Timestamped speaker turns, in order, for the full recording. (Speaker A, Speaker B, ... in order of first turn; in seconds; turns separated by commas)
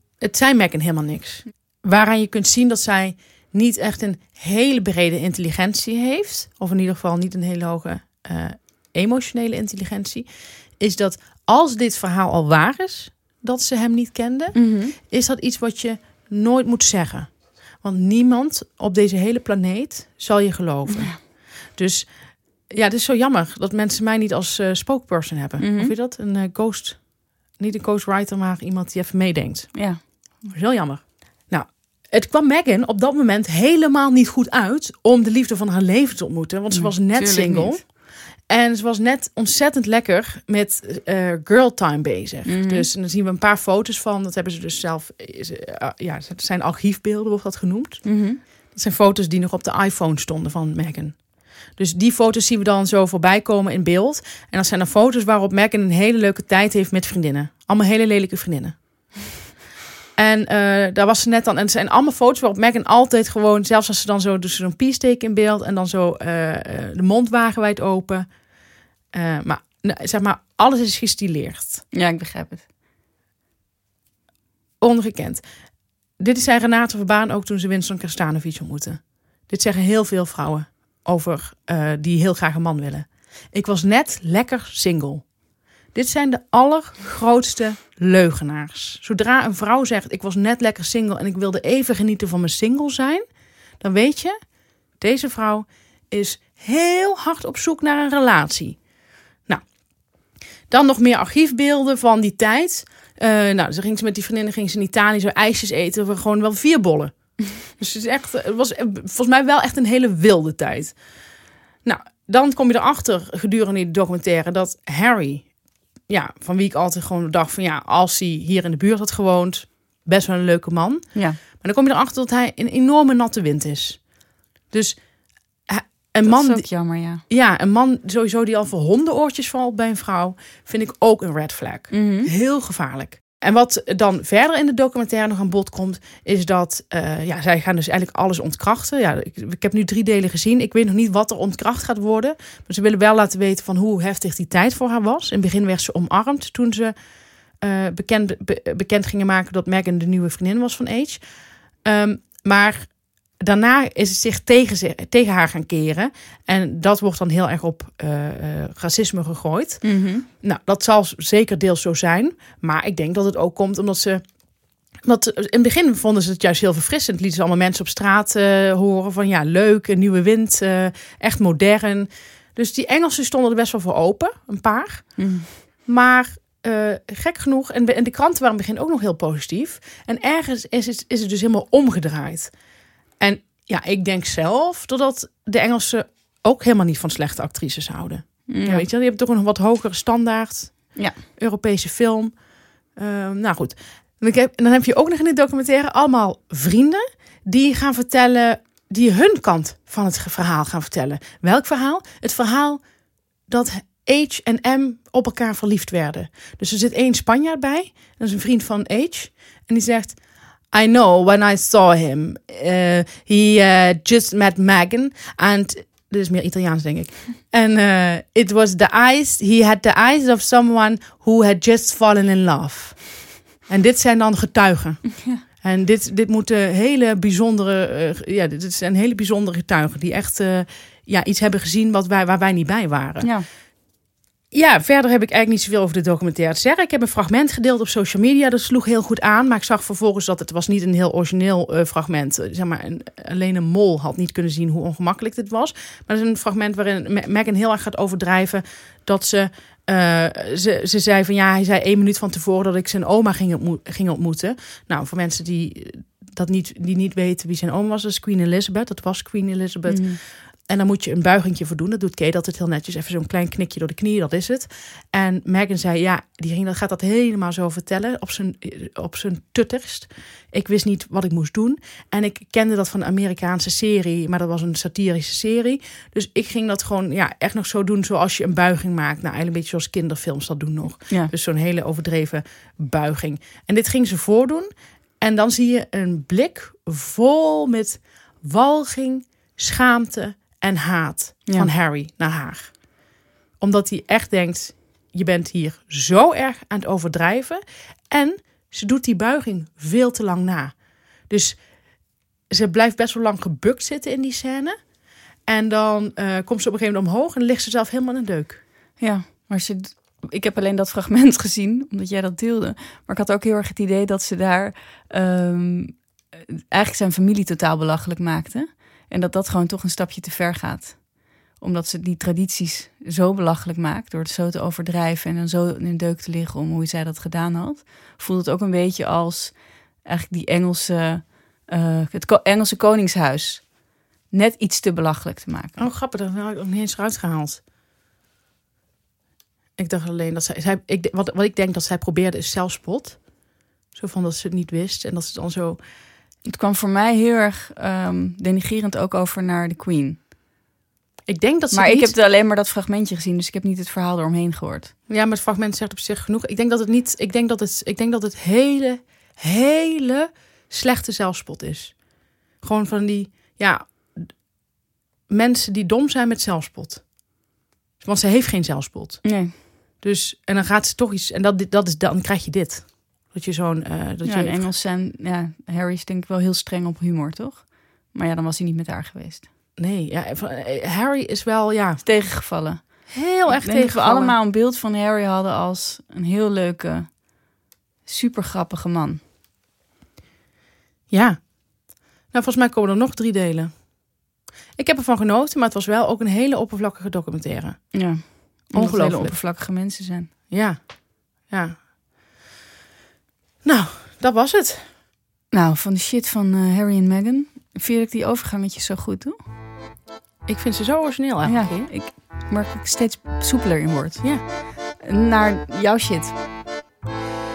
Speaker A: 0.2-59.1, Speaker B: 14.6-15.0, Speaker B: 25.6-25.9, Speaker B: 29.7-30.0, Speaker B: 36.7-37.8, Speaker B: 42.5-42.9, Speaker B: 48.0-48.4, Speaker A: 60.1-68.3, Speaker A: 69.1-71.9, Speaker B: 71.9-72.7, Speaker A: 74.8-75.4, Speaker A: 76.2-85.4, Speaker A: 85.9-93.2, Speaker A: 93.8-98.9, Speaker A: 100.7-111.2, Speaker A: 111.8-124.2, Speaker B: 121.1-121.4, Speaker A: 124.7-146.9, Speaker B: 126.2-127.2, Speaker B: 131.9-132.3, Speaker A: 147.5-164.4, Speaker B: 159.8-160.3, Speaker A: 165.0-182.6, Speaker B: 175.2-175.6, Speaker A: 183.2-202.9, Speaker B: 188.5-188.8, Speaker B: 190.9-191.2, Speaker A: 203.5-233.4, Speaker B: 233.2-233.5, Speaker A: 234.5-284.7, Speaker B: 259.9-260.2, Speaker A: 285.2-293.1, Speaker A: 293.6-304.9, Speaker A: 305.4-308.6, Speaker B: 309.0-335.9, Speaker A: 335.8-337.6, Speaker A: 339.8-345.8, Speaker B: 346.4-350.2, Speaker A: 351.3-352.1, Speaker B: 351.7-354.9, Speaker A: 355.1-364.5, Speaker A: 365.3-367.3, Speaker A: 368.0-374.7, Speaker B: 369.2-369.5, Speaker B: 374.2-379.5, Speaker A: 379.8-382.1, Speaker B: 382.0-389.2, Speaker A: 383.1-384.4, Speaker A: 391.1-394.2, Speaker A: 394.8-399.4, Speaker B: 397.9-400.3, Speaker A: 400.5-401.8, Speaker A: 403.6-404.9, Speaker B: 405.5-409.4, Speaker A: 410.5-411.9, Speaker B: 411.4-416.4